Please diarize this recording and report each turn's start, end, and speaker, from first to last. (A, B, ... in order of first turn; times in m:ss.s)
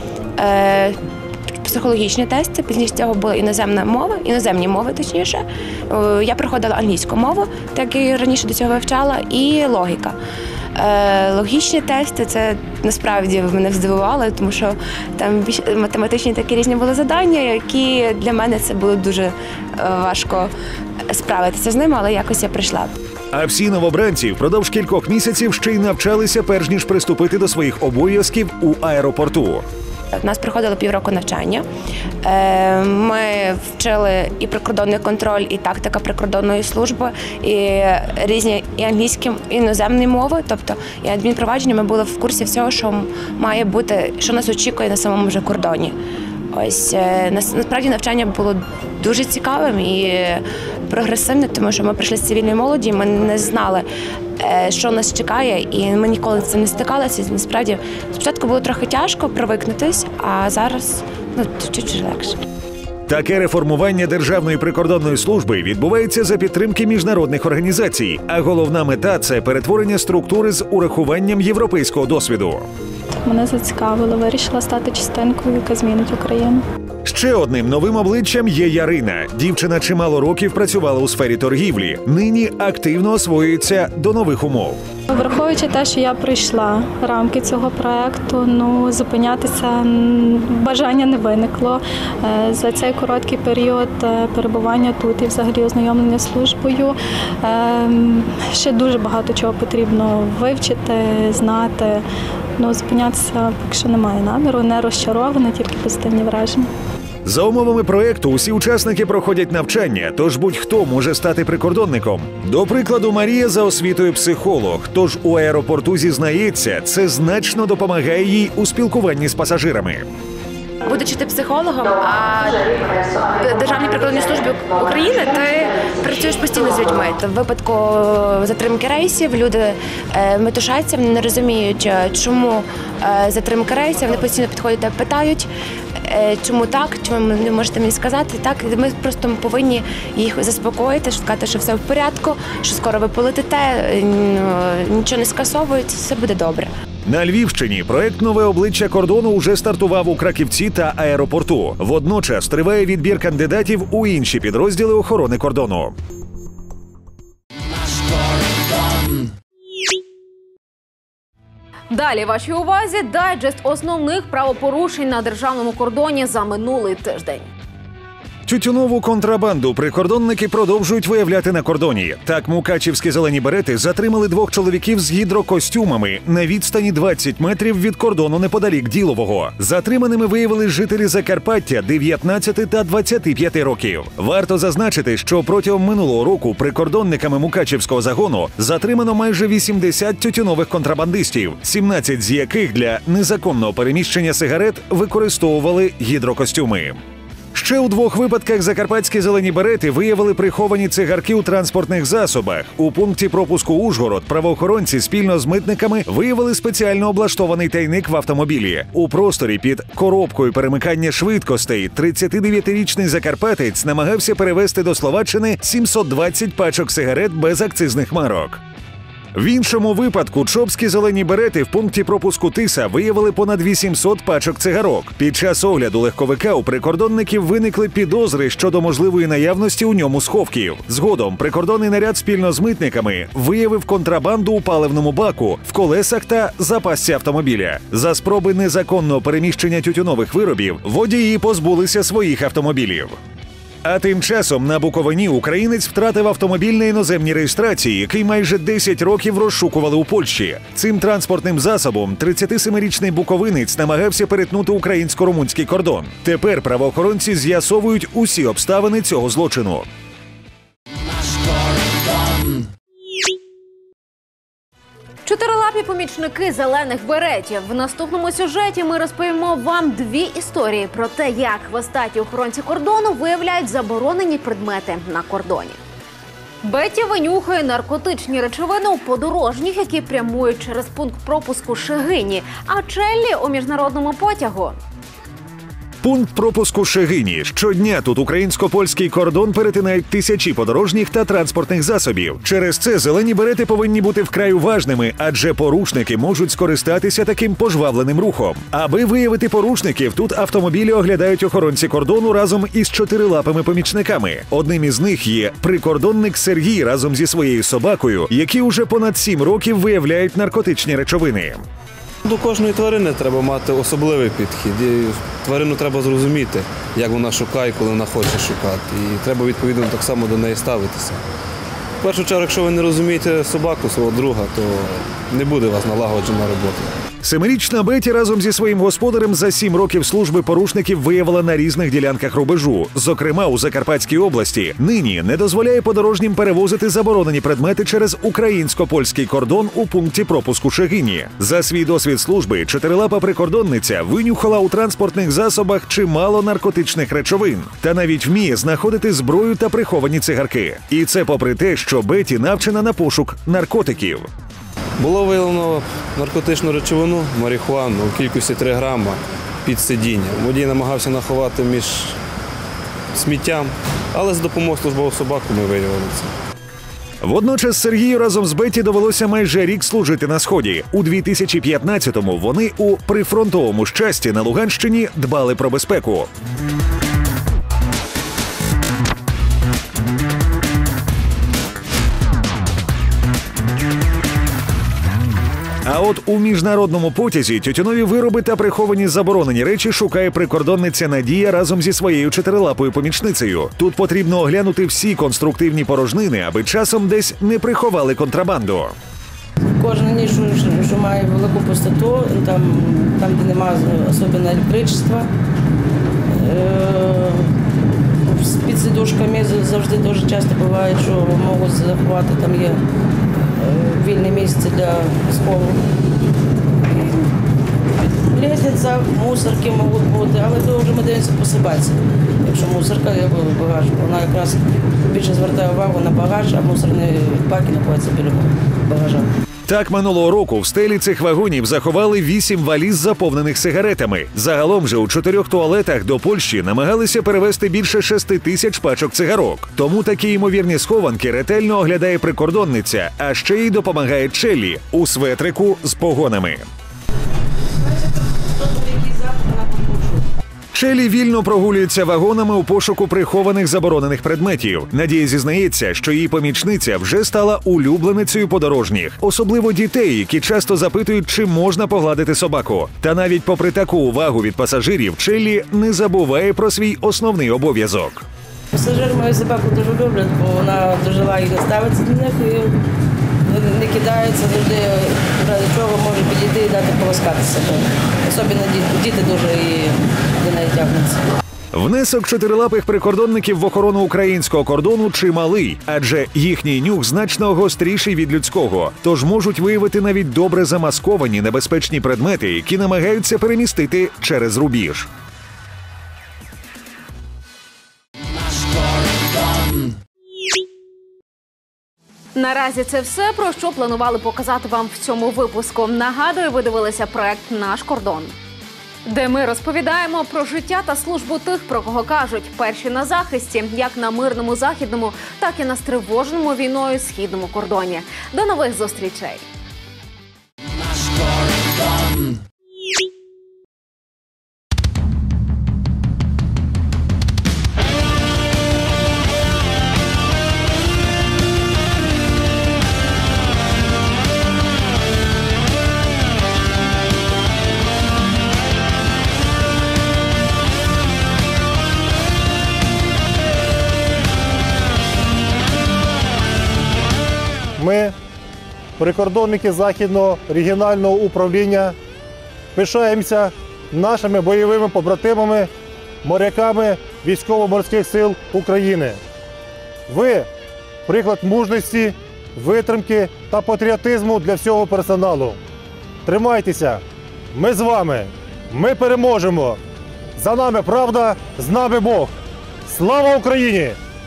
0:00.4-0:01.0 A
0:01.6-0:10.2 A
0:10.8-0:20.5 A
0:21.1-0:22.9 A
0:23.3-0:29.6 B
0:30.1-0:31.6 A
0:32.2-0:45.9 A
0:46.5-0:53.8 A
0:54.4-1:02.4 A
1:03.1-1:12.7 B
1:13.2-1:16.6 C
1:17.0-1:24.8 B
1:25.1-1:42.0 C
1:42.6-1:46.7 C
1:47.2-2:00.0 B
2:00.8-2:26.7 A
2:27.0-2:35.9 B
2:41.9-2:47.4 D
2:48.4-3:17.0 B
3:17.5-3:38.6 B
3:39.3-4:03.2 B
4:03.8-4:19.9 B
4:25.2-4:35.8 D
4:36.6-4:44.8 D
4:46.0-5:11.6 B
5:12.3-5:21.2 E
5:22.0-5:26.9 E
5:27.2-5:54.3 B
5:55.0-6:02.2 E
6:03.1-6:06.3 E
6:07.2-6:16.3 B
6:25.8-6:38.9 B
6:39.8-6:45.3 F
6:46.3-6:47.5 F
6:48.2-6:52.8 F
6:53.6-6:55.8 F
6:56.9-6:57.3 F
6:58.0-7:09.3 F
7:09.7-7:26.6 B
7:27.8-7:30.3 F
7:30.7-7:48.2 B
7:48.7-7:52.8 F
7:53.5-8:01.2 F
8:01.7-8:15.1 B
8:22.3-8:28.3 D
8:29.0-8:39.4 D
9:07.8-9:08.1 G
9:09.0-9:11.9 G
9:12.7-9:15.7 G
9:16.2-9:19.2 G
9:20.1-9:20.5 G
9:21.1-9:25.6 G
9:26.2-9:27.0 G
9:27.5-9:29.8 G
9:30.4-9:32.3 G
9:32.9-9:34.0 G